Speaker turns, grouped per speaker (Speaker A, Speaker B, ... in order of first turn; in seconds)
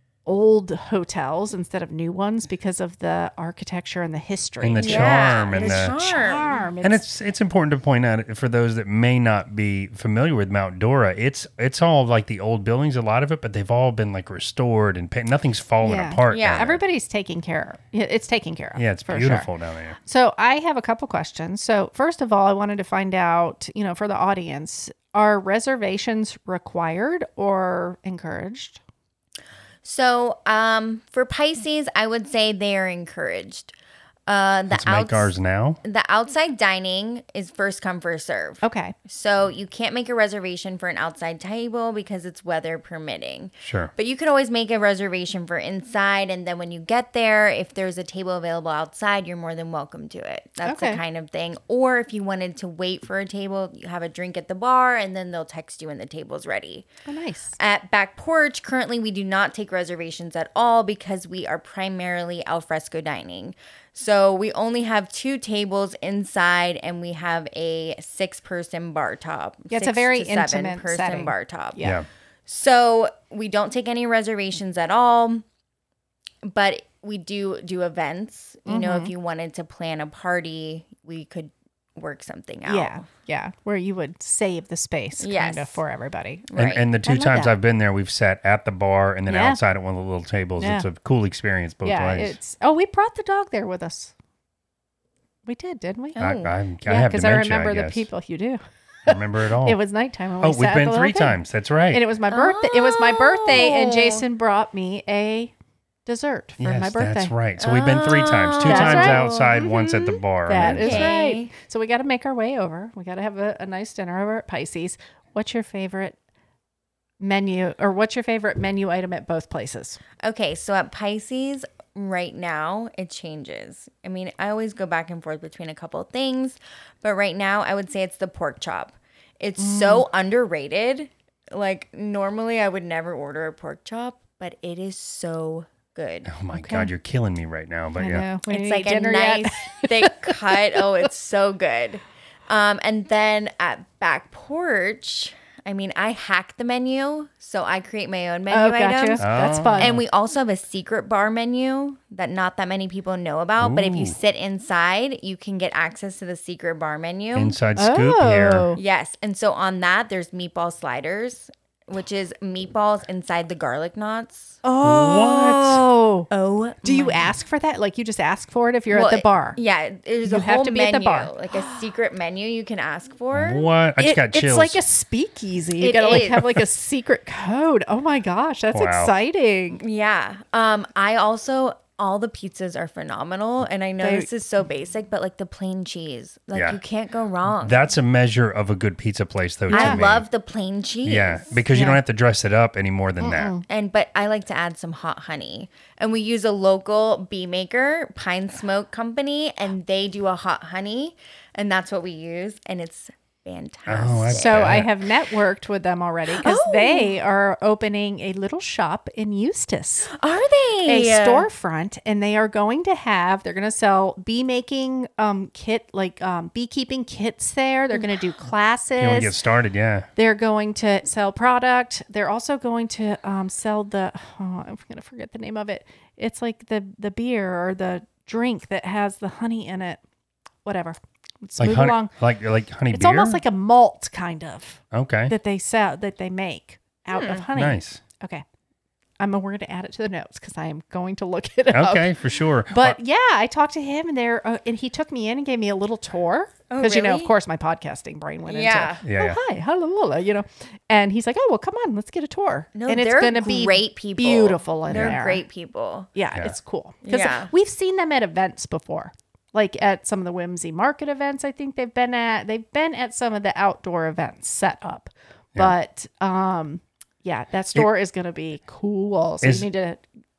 Speaker A: 0.3-7.0, 15.8-19.5, 20.0-28.8, 38.6-39.0, 50.6-51.0, 57.1-57.6, 69.7-72.0, 78.7-79.1, 82.7-86.5, 87.0-87.5, 89.3-89.6, 90.6-90.9, 91.8-94.1, 95.5-96.2, 96.8-101.4, 101.9-105.5, 106.1-107.3, 108.6-116.2, 117.2-120.0, 129.6-130.1, 136.5-136.9, 138.0-140.3, 148.5-149.9, 157.8-158.8, 164.6-166.3, 166.8-169.6, 170.3-171.8, 174.0-179.8, 184.0-184.3, 189.7-190.0, 191.7-192.0, 193.2-193.7, 204.3-210.1, 210.9-219.3, 220.2-230.0, 230.7-232.1, 232.9-238.4, 239.2-242.2, 242.7-255.4, 256.1-270.1
Speaker B: 4.6-5.9, 6.8-16.8, 18.8-20.0, 34.7-35.8, 43.6-43.9, 86.6-92.4, 96.2-98.1, 99.1-99.8, 100.4-102.0, 106.6-111.1, 136.3-138.3, 149.2-150.1, 153.6-154.2, 157.3-158.7, 164.8-165.8, 173.3-174.8, 178.7-179.1, 186.5-186.8, 187.6-190.3, 191.0-193.5, 203.9-204.9, 219.0-220.1, 231.6-233.4, 234.9-235.3, 237.5-238.0, 241.7-243.0, 249.0-249.4, 254.9-255.2, 269.4-269.7
Speaker C: 4.8-6.6, 16.3-16.7, 29.8-33.7, 34.3-35.3, 35.8-56.9, 57.6-71.9, 72.5-75.4, 76.4-83.1, 85.2-85.8, 86.5-86.9, 96.2-96.5, 102.3-104.2, 107.6-109.6, 110.6-111.5, 120.2-136.3, 138.5-157.6, 158.8-164.6, 166.3-167.3, 168.9-173.7, 175.8-176.6, 179.8-187.8, 189.7-191.7, 193.7-204.8, 206.3-207.2, 210.1-211.5, 237.1-237.4, 246.7-247.3, 248.5-249.0, 252.8-256.1, 257.1-257.5